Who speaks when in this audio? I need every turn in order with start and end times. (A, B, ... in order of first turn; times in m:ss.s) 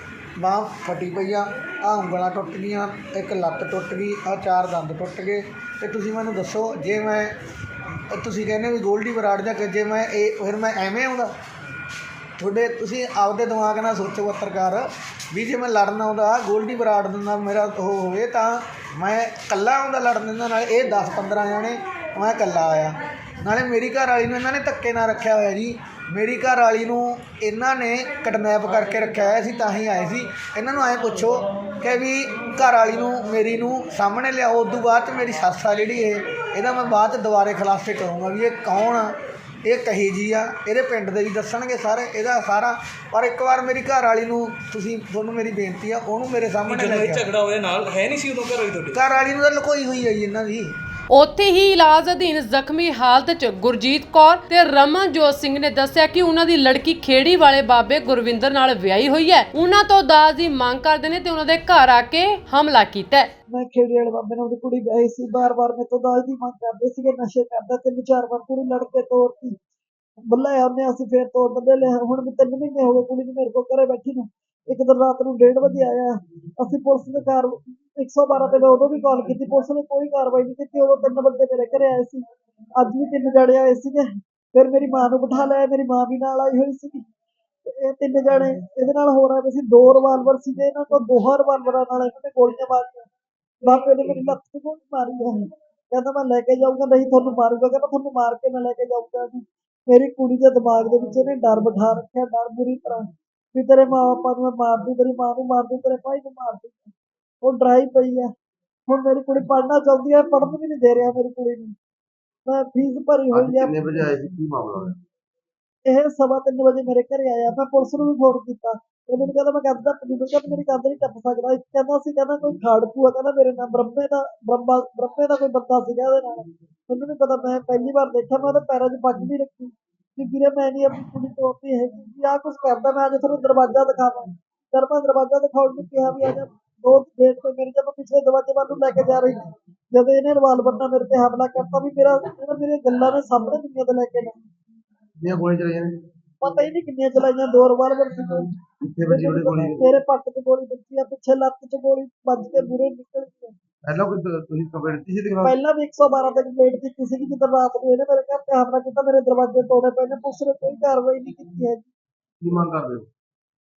0:00.4-0:07.4 A
0:08.1-0:11.3 A
0:12.4-0:39.1 A
0:39.7-0:47.3 A
0:46.7-0:49.0 B
0:48.9-0:50.7 A
0:51.1-1:03.3 C
1:03.5-1:09.6 D
1:10.3-1:22.2 D
1:22.8-1:27.0 D
1:27.7-1:33.1 D
1:33.6-1:35.4 D
1:35.9-1:43.0 D
1:43.6-1:48.3 D
1:48.9-1:51.7 D
1:52.4-1:53.8 D
1:53.3-1:55.0 E
1:55.9-2:24.3 D
2:25.2-2:26.0 E
2:26.4-2:33.5 D
2:28.7-2:30.0 E
2:33.8-2:35.6 E
2:35.4-2:41.9 D
2:42.4-2:43.1 E